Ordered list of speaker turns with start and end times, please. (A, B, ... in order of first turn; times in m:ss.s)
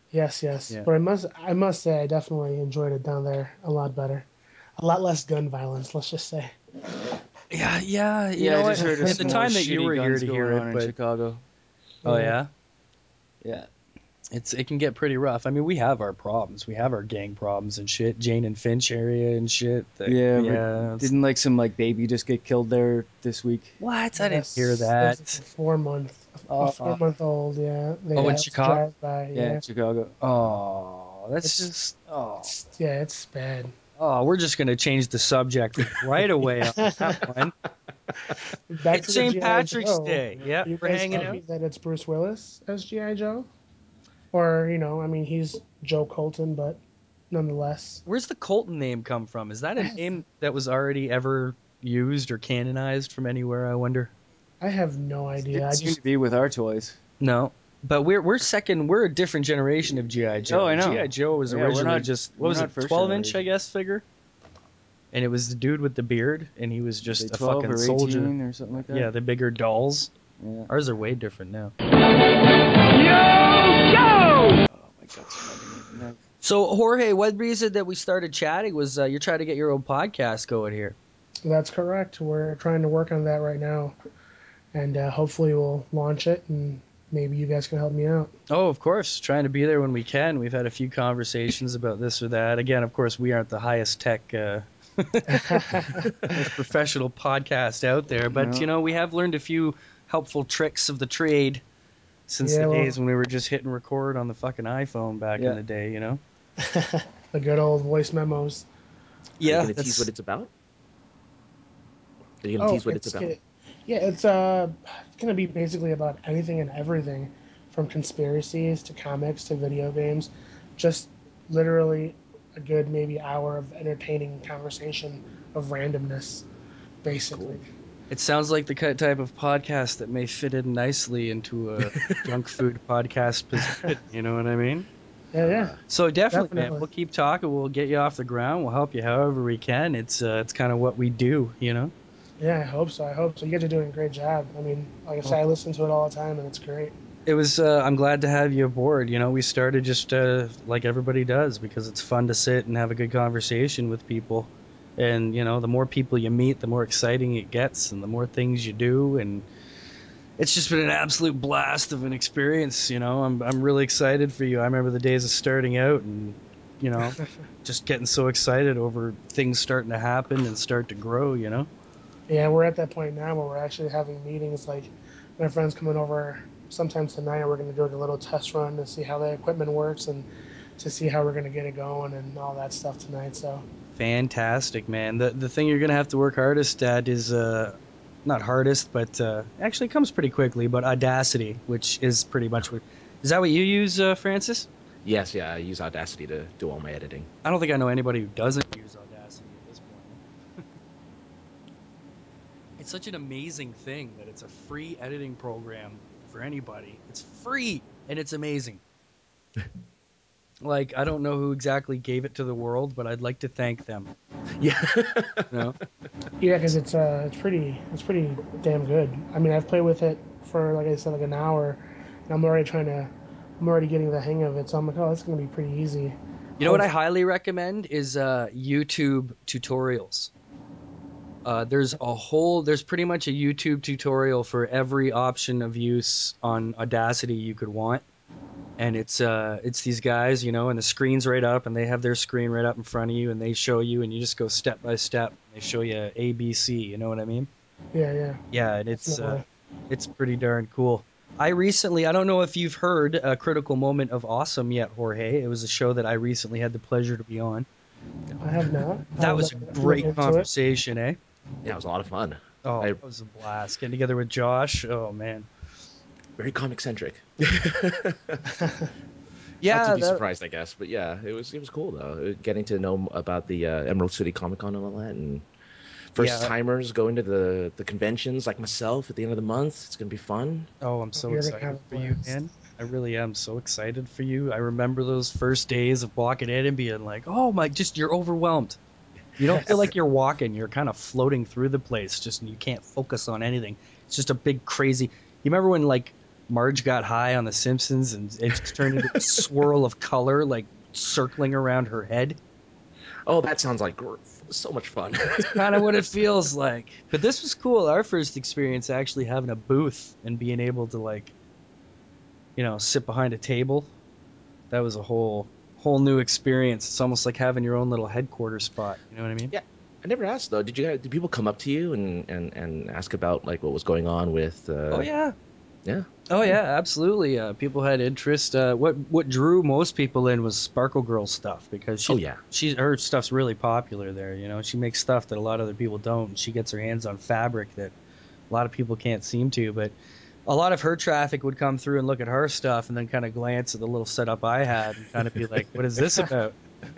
0:00.1-0:06.5 A
0:07.5-0:10.9 B
0:08.4-0:11.4 C
0:08.8-0:09.4 A
0:12.0-0:12.5 B
0:13.4-0:13.7 C
0:14.3-0:21.1 B
0:20.1-0:23.8 C
0:23.8-0:25.4 B
0:24.2-0:29.6 A
0:26.5-0:27.0 C
0:28.2-0:28.8 B
0:29.3-0:30.2 C
0:30.2-0:32.5 B
0:31.4-0:31.7 A
0:32.4-0:33.7 A
0:34.0-0:37.6 B
0:36.8-0:37.2 A
0:38.7-0:43.5 A
0:38.9-0:41.4 B
0:44.3-0:46.8 A
0:47.3-0:48.0 A
0:48.1-0:54.1 B
0:54.6-0:56.0 A
0:55.5-0:57.0 C
0:57.2-1:04.0 B
1:00.4-1:03.4 C
1:05.1-1:08.3 B
1:07.1-1:09.1 C
1:08.9-1:10.1 B
1:10.4-1:10.7 C
1:10.7-1:11.7 B
1:14.7-1:16.2 C
1:16.4-1:21.0 B
1:21.4-1:24.0 A
1:24.7-1:28.3 A
1:28.5-1:35.6 B
1:35.3-1:36.1 A
1:36.3-1:41.6 B
1:38.3-1:38.7 C
1:42.3-1:46.2 B
1:42.4-1:43.0 A
1:46.6-1:48.7 A
1:49.4-1:50.1 B
1:49.4-1:50.5 D
1:52.4-1:53.4 D
1:52.6-2:06.4 A
2:07.0-2:07.7 A
2:07.2-2:07.6 D
2:08.1-2:14.9 B
2:11.8-2:12.2 D
2:15.3-2:15.8 A
2:15.4-2:15.8 D
2:15.9-2:21.9 B
2:16.3-2:16.9 A
2:22.4-2:26.9 A
2:27.3-2:39.5 B
2:40.4-2:51.7 B
2:52.3-3:03.6 A
3:04.0-3:14.7 B
3:15.0-3:17.3 D
3:17.4-3:20.2 B
3:22.8-3:28.8 B
3:30.6-3:34.1 B
3:34.6-3:35.5 D
3:35.5-3:35.8 B
3:36.4-3:46.9 A
3:46.6-3:50.3 B
3:51.4-3:58.0 B
3:58.8-4:07.5 B
4:07.9-4:08.4 A
4:08.5-4:17.7 B
4:08.9-4:09.4 A
4:18.4-4:20.5 A
4:19.2-4:21.2 B
4:21.6-4:23.0 D
4:22.6-4:25.5 B
4:26.4-4:28.4 D
4:28.6-4:28.9 A
4:29.6-4:30.2 B
4:29.7-4:35.5 D
4:36.1-4:40.7 D
4:36.2-4:36.5 B
4:40.8-4:48.8 B
4:41.2-4:42.3 A
4:49.4-5:02.4 B
4:49.5-4:49.8 A
4:49.6-4:49.9 D
4:58.7-4:59.4 D
5:03.3-5:05.9 D
5:05.5-5:11.3 B
5:12.6-5:13.9 B
5:14.7-5:19.5 B
5:19.5-5:25.1 D
5:24.9-5:25.4 B
5:25.8-5:26.6 D
5:26.3-5:38.0 B
5:32.1-5:32.4 D
5:38.5-5:40.0 B
5:40.5-5:46.6 B